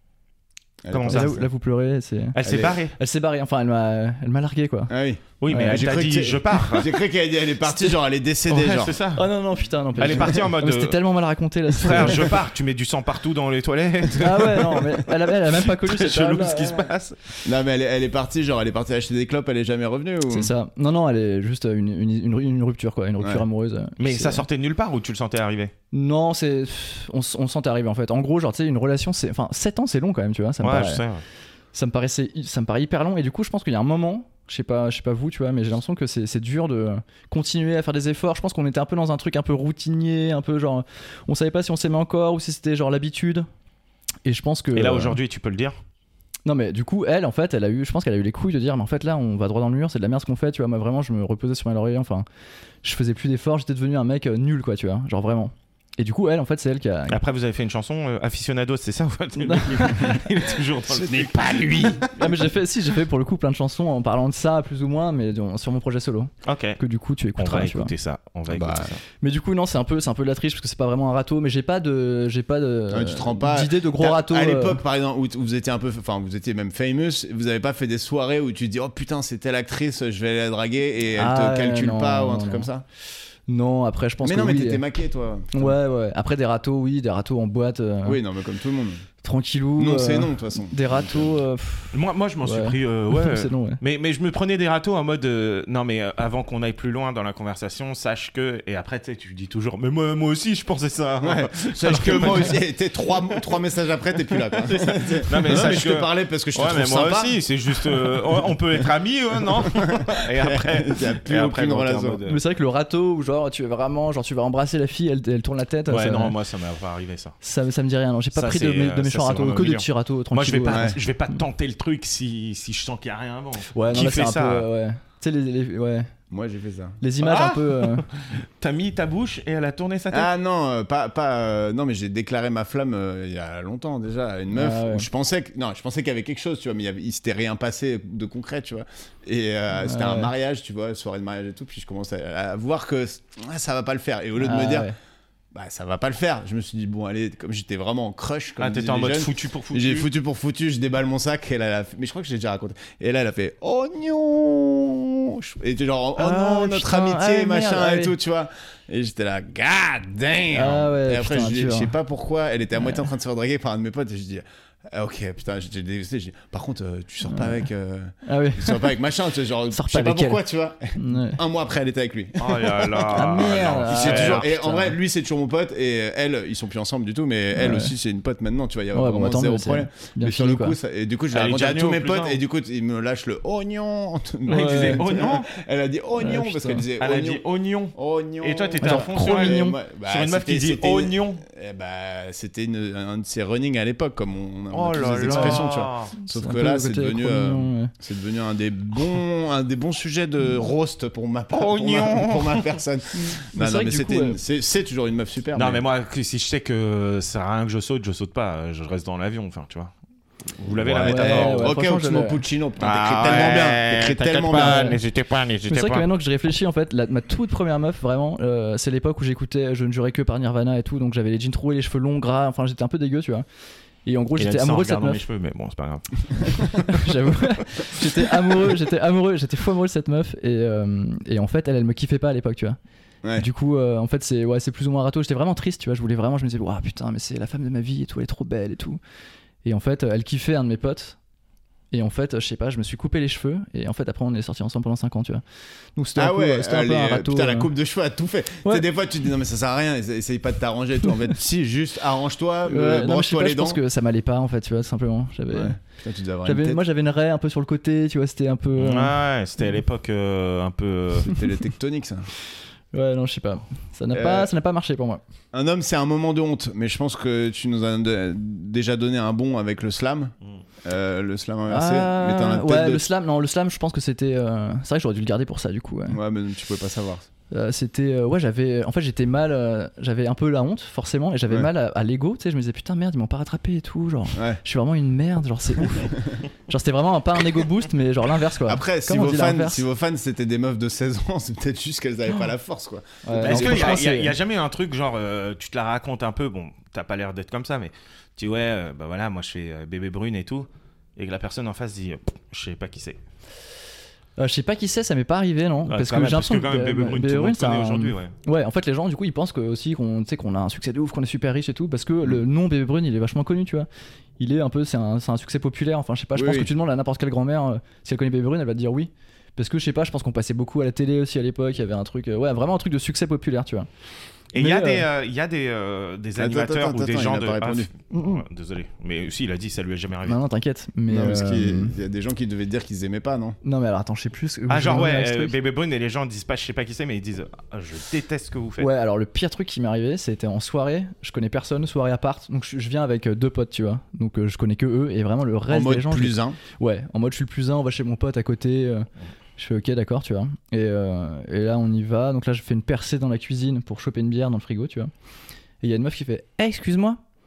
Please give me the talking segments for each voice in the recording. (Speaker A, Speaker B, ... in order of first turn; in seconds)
Speaker A: 0.8-1.4, 2.4-2.8, 4.9-9.0, 11.8-12.3, 17.4-20.5, 60.9-62.1, 68.5-69.0, 72.9-82.8, 84.2-85.7, 88.0-89.0, 89.8-91.4, 101.2-108.9, 109.4-112.2, 120.7-121.0, 126.3-127.0, 130.1-144.9, 145.5-187.4, 187.9-205.8, 210.8-215.0, 246.2-253.8, 255.5-256.8, 261.2-262.3, 264.1-264.5, 265.5-273.0, 276.1-277.3, 284.4-284.6, 288.6-294.0, 316.4-316.7, 326.4-327.9, 331.1-333.6, 345.7-346.6
Speaker B: 0.9-1.4, 2.4-3.0, 5.4-6.9, 8.5-9.3, 10.0-11.0, 11.8-17.2, 24.0-25.7, 30.6-31.2, 44.7-45.8, 57.1-62.3, 66.5-66.8, 67.4-69.0, 91.9-102.6, 103.2-103.4, 104.3-112.4, 115.9-117.3, 118.3-124.7, 127.2-130.3, 148.6-150.1, 172.4-174.5, 181.3-182.4, 184.5-185.5, 187.0-191.4, 194.7-196.1, 201.5-202.7, 205.6-209.9, 210.6-211.7, 212.8-216.1, 224.4-227.1, 258.8-261.3, 293.4-303.2, 305.9-308.3, 324.5-330.4, 334.7-338.9
Speaker C: 1.1-4.9, 5.5-5.8, 7.6-8.0, 9.1-12.3, 14.2-16.9, 20.3-24.4, 25.9-31.0, 31.7-43.5, 44.2-45.2, 46.5-52.2, 52.8-57.2, 59.4-60.3, 62.1-67.9, 69.2-74.8, 81.2-82.7, 83.5-84.8, 85.5-88.2, 89.2-93.8, 112.3-116.3, 117.4-121.4, 123.7-126.1, 127.0-128.1, 134.5-135.1, 139.8-140.3, 144.4-144.9, 156.2-158.2, 160.5-161.9, 162.8-163.1, 167.2-167.7, 168.2-169.0, 169.7-170.4, 171.0-171.4, 173.1-175.0, 177.6-177.9, 178.9-180.8, 184.5-185.1, 186.2-186.9, 188.8-189.8, 195.3-195.7, 196.2-197.9, 203.6-204.4, 211.0-212.4, 214.5-215.0, 215.7-223.4, 224.1-225.2, 226.7-232.8, 233.4-239.0, 239.6-241.2, 241.9-245.4, 246.0-247.7, 252.7-255.8, 256.4-259.1, 262.9-265.2, 271.7-276.2, 277.5-289.9, 293.2-294.3, 304.4-313.9, 314.4-323.9, 324.6-325.1, 328.1-328.4, 330.3-332.0, 333.6-335.5, 338.8-355.1, 355.8-357.2